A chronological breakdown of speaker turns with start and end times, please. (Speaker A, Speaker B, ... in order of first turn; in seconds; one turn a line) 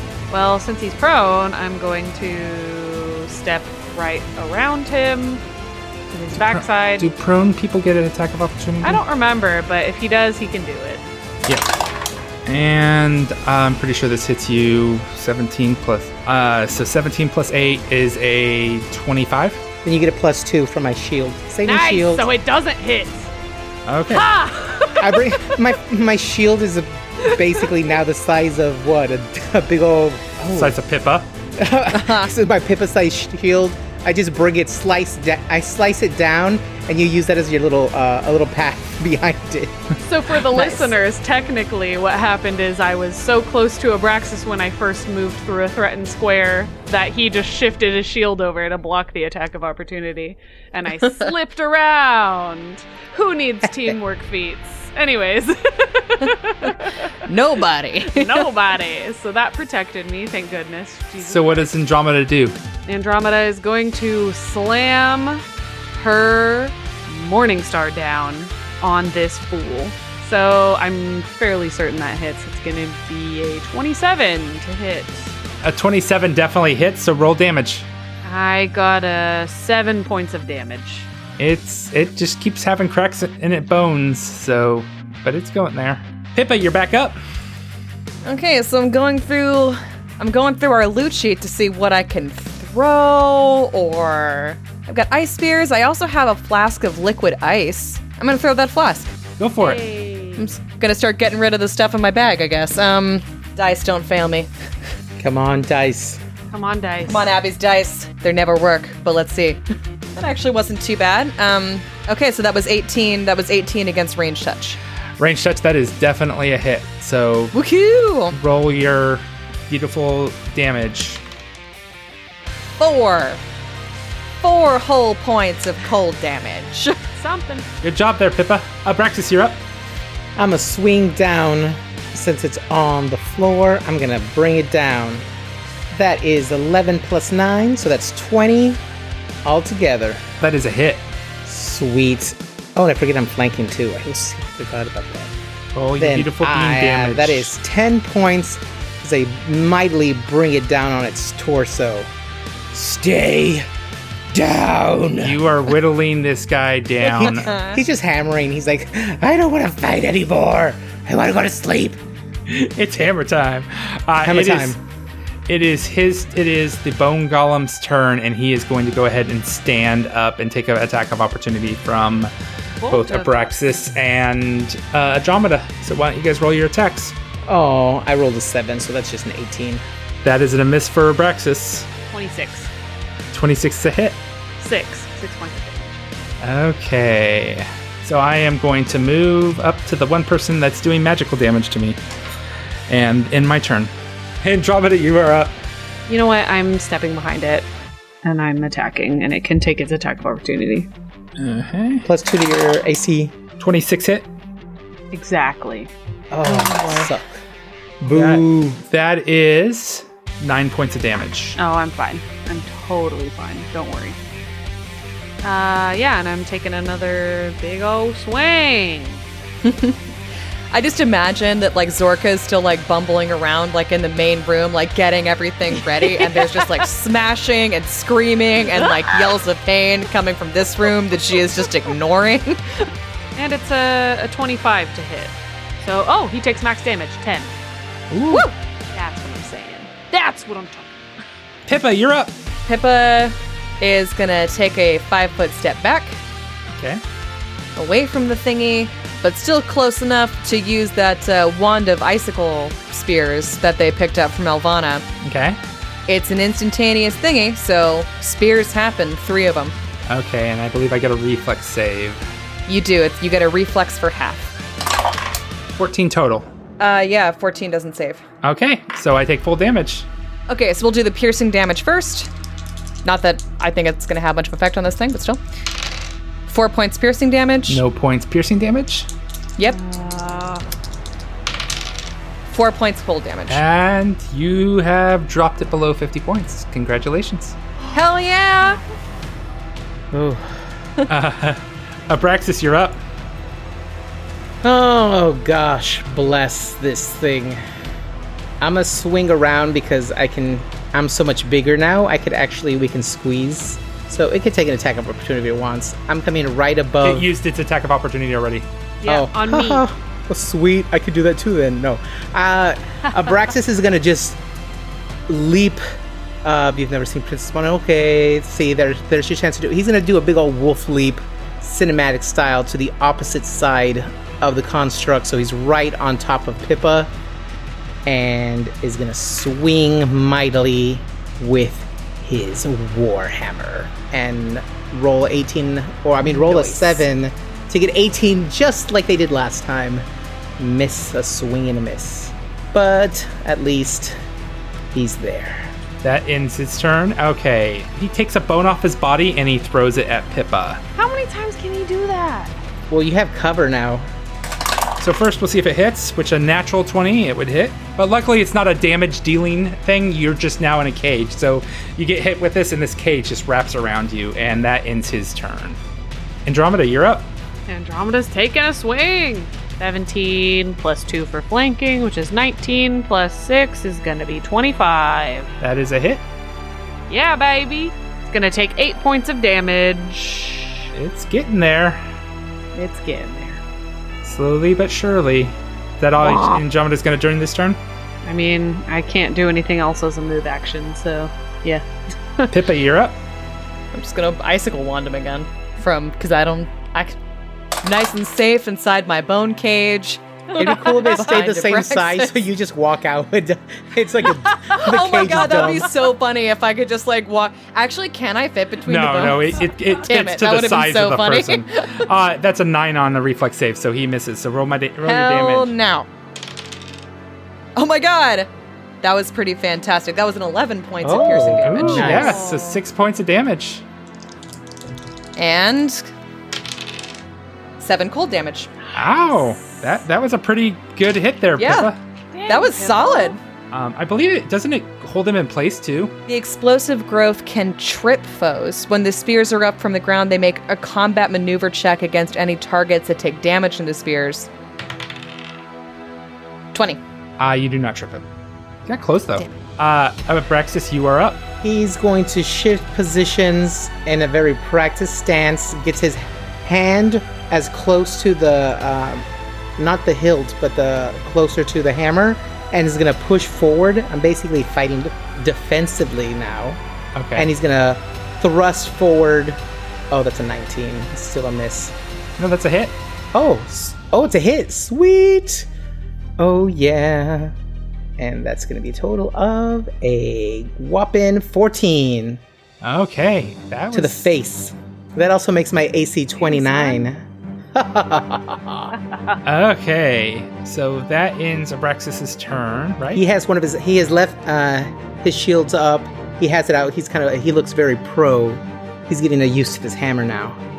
Speaker A: 0.3-5.4
Speaker A: 6.1-7.1
Speaker B: 6.3-9.0
Speaker A: 8.8-11.0
Speaker B: 12.4-19.6
Speaker C: 19.8-22.3
Speaker A: 21.6-23.3
Speaker B: 23.9-24.3
Speaker A: 24.1-25.6
Speaker C: 25.0-30.8
Speaker B: 30.5-31.3
Speaker C: 31.6-39.9
Speaker D: 31.9-32.3
Speaker A: 40.0-57.1
Speaker D: 40.5-40.9
Speaker D: 57.2-58.5
Speaker A: 58.0-61.7
Speaker B: 61.2-62.6
Speaker A: 62.9-65.4
Speaker A: 65.9-75.3
Speaker B: 75.6-77.9
Speaker A: 78.2-81.1
Speaker B: 81.4-87.2
Speaker D: 88.2-99.1
Speaker B: 99.4-99.8
Speaker A: 99.6-100.5
Speaker D: 100.4-104.5
Speaker C: 105.2-106.2
Speaker A: 106.5-107.3
Speaker D: 107.0-109.6
Speaker D: 110.2-114.8
Speaker B: 115.2-117.5
Speaker D: 117.5-118.3
Speaker B: 118.3-121.2
Speaker D: 122.8-123.4
Speaker D: 124.4-127.0
Speaker A: 127.1-127.7
Speaker B: 127.8-129.6
Speaker C: 130.3-135.2
Speaker C: 135.9-138.8
Speaker C: 139.4-140.2
Speaker B: 140.4-141.1
Speaker C: 141.4-145.3
Speaker B: 145.7-147.5
Speaker C: 146.0-152.1
Speaker C: 152.7-153.7
Speaker C: 154.3-155.4
Speaker B: 155.2-157.5
Speaker D: 157.0-157.8
Speaker C: 157.2-162.0
Speaker B: 162.5-164.8
Speaker C: 164.2-164.8
Speaker B: 165.5-172.3
Speaker A: 172.8-173.5
Speaker B: 172.9-177.1
Speaker C: 177.5-179.8
Speaker B: 180.2-181.9
Speaker A: 182.1-182.7
Speaker B: 183.3-184.2
Speaker A: 184.6-186.0
Speaker B: 186.4-192.0
Speaker B: 192.9-195.6
Speaker A: 196.1-197.7
Speaker A: 198.2-200.9
Speaker B: 201.4-202.1
Speaker C: 202.0-203.3
Speaker B: 203.6-204.3
Speaker A: 205.1-207.2
Speaker C: 206.3-207.4
Speaker C: 208.0-208.8
Speaker B: 208.1-211.6
Speaker A: 211.6-214.2
Speaker A: 215.4-219.2
Speaker D: 219.6-220.0
Speaker D: 220.7-232.9
Speaker A: 226.0-226.8
Speaker A: 228.7-229.3
Speaker A: 233.3-237.6
Speaker B: 238.1-238.5
Speaker A: 238.9-241.0
Speaker B: 241.7-242.3
Speaker D: 242.7-246.2
Speaker B: 246.7-247.0
Speaker D: 247.8-255.0
Speaker B: 255.2-255.6
Speaker D: 256.1-259.7
Speaker B: 260.1-262.2
Speaker D: 262.7-264.5
Speaker B: 265.8-266.5
Speaker D: 266.8-268.2
Speaker B: 268.4-270.1
Speaker D: 270.5-272.3
Speaker D: 273.0-275.4
Speaker D: 276.5-277.8
Speaker B: 277.7-279.1
Speaker A: 279.6-280.6
Speaker D: 282.5-283.6
Speaker B: 283.5-287.6
Speaker D: 287.9-288.8
Speaker C: 290.1-290.5
Speaker B: 291.1-293.0
Speaker C: 294.6-297.6
Speaker C: 298.6-307.3
Speaker B: 307.0-308.7
Speaker A: 309.0-309.8
Speaker C: 309.1-314.4
Speaker C: 315.3-315.8
Speaker C: 316.4-327.1
Speaker C: 328.1-340.0
Speaker C: 340.6-344.2
Speaker C: 344.9-345.7
Speaker B: 346.0-350.8
Speaker A: 350.9-352.6
Speaker C: 352.9-354.1
Speaker B: 355.0-365.8
Speaker B: 366.4-367.3
Speaker A: 367.7-375.5
Speaker B: 375.6-376.2
Speaker A: 377.1-380.8
Speaker B: 380.9-382.0
Speaker A: 382.7-383.6
Speaker B: 384.2-387.8
Speaker A: 386.2-386.6
Speaker A: 388.2-391.9
Speaker B: 392.5-393.2
Speaker D: 393.9-397.1
Speaker D: 397.8-402.3
Speaker A: 400.5-401.2
Speaker C: 400.5-405.9
Speaker D: 404.7-412.1
Speaker B: 408.9-415.7
Speaker D: 415.0-416.1
Speaker D: 417.8-418.5
Speaker D: 419.0-422.4
Speaker C: 421.0-422.4
Speaker B: 421.6-423.8
Speaker A: 421.9-422.8
Speaker D: 425.4-426.1
Speaker D: 427.8-428.7
Speaker A: 428.8-429.9
Speaker B: 428.9-432.0
Speaker D: 431.6-431.9
Speaker A: 432.3-433.4
Speaker D: 432.5-433.4
Speaker B: 433.7-436.1
Speaker D: 436.3-444.5
Speaker D: 446.7-447.0
Speaker B: 447.4-448.2
Speaker B: 448.9-451.4
Speaker C: 451.6-459.2
Speaker C: 459.8-466.8
Speaker B: 467.1-467.5
Speaker C: 467.3-469.6
Speaker C: 470.1-471.9
Speaker B: 472.4-472.9
Speaker C: 473.3-475.7
Speaker C: 476.4-477.5
Speaker C: 478.2-482.4
Speaker B: 482.8-484.3
Speaker C: 483.9-487.2
Speaker A: 486.4-487.1
Speaker C: 487.7-488.9
Speaker B: 489.4-493.2
Speaker C: 493.1-500.6